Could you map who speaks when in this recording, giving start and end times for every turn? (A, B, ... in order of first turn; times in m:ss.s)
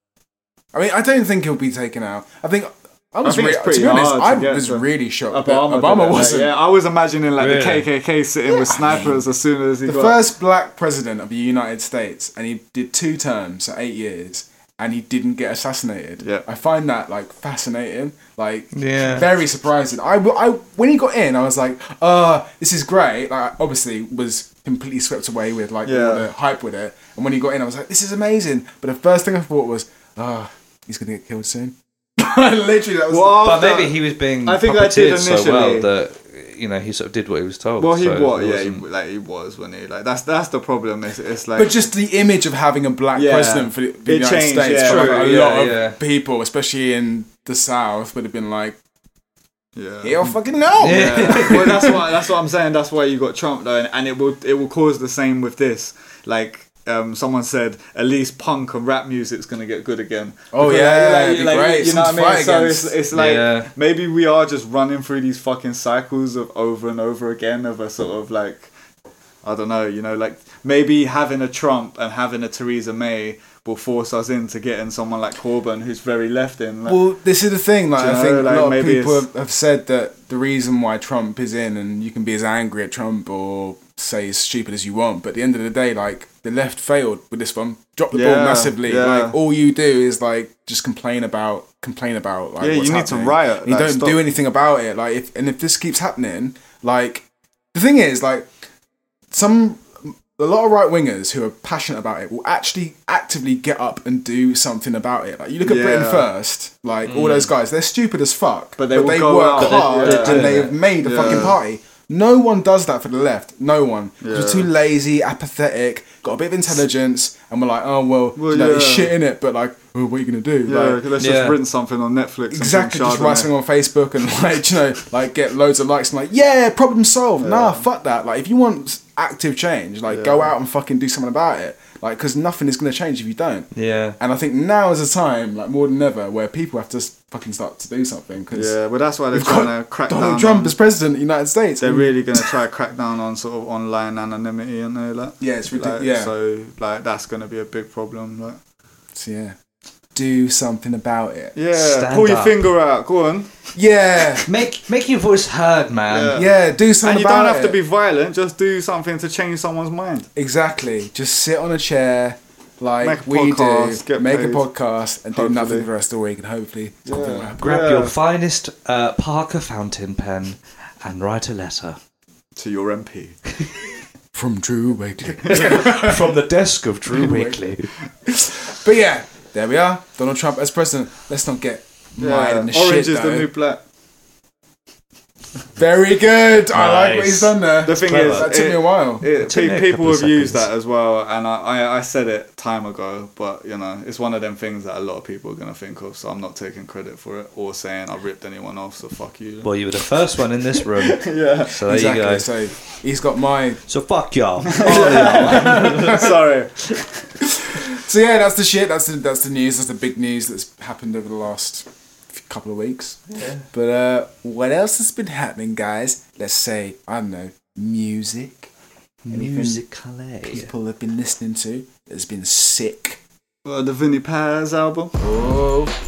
0:00.7-0:06.5 A
0:03.2-0:10.2 B
0:07.4-0:07.9 C
0:08.5-0:09.2 A
0:09.8-0:33.6 A
0:18.7-0:19.3 C
0:25.8-0:26.3 B
0:33.1-0:35.9 B
0:33.4-0:38.8 C
0:37.8-0:41.8 B
0:41.5-0:48.8 A
0:43.1-0:45.6 B
0:44.8-0:46.0 C
0:49.8-1:08.7 B
0:50.0-0:52.0 A
0:50.8-0:51.9 C
1:00.5-1:02.9 A
1:03.1-1:03.7 C
1:09.4-1:17.0 B
1:16.8-1:38.5 A
1:18.0-1:19.2 B
1:28.1-1:29.4 B
1:32.6-1:34.2 B
1:39.3-2:01.0 A
1:45.6-1:46.3 B
1:47.0-1:47.5 C
1:48.8-1:51.6 B
1:49.6-1:51.4 C
1:54.2-1:54.7 B
1:58.4-1:59.2 B
2:00.6-2:03.5 B
2:01.2-2:01.6 C
2:02.5-2:18.8 A
2:07.4-2:07.8 B
2:10.1-2:10.5 B
2:13.7-2:14.2 C
2:18.5-2:20.7 B
2:19.3-2:22.5 A
2:21.8-2:28.6 B
2:25.4-2:26.3 A
2:29.1-2:29.6 A
2:30.1-2:31.5 A
2:31.5-2:33.5 B
2:31.7-2:32.6 C
2:33.7-2:34.4 A
2:34.5-2:36.4 C
2:36.1-2:36.5 B
2:36.3-2:37.8 A
2:37.0-2:40.3 B
2:40.4-2:47.9 A
2:43.0-2:44.7 B
2:45.3-2:45.9 B
2:47.0-2:48.1 B
2:47.6-2:52.0 C
2:52.6-2:53.4 B
2:54.3-2:56.4 A
2:55.4-2:57.9 C
2:57.1-2:57.6 A
2:58.2-3:03.5 A
3:02.2-3:03.8 B
3:05.8-3:09.2 A
3:06.7-3:08.5 C
3:07.8-3:19.8 B
3:09.3-3:10.7 C
3:19.6-3:22.5 C
3:21.1-3:21.7 B
3:21.8-3:23.8 A
3:23.9-3:26.3 C
3:24.7-3:27.1 B
3:24.8-3:26.3 A
3:27.7-3:38.7 A
3:33.3-3:33.6 C
3:39.3-3:40.7 C
3:39.3-3:39.8 A
3:40.4-3:43.2 A
3:43.6-3:45.1 B
3:45.2-3:45.9 A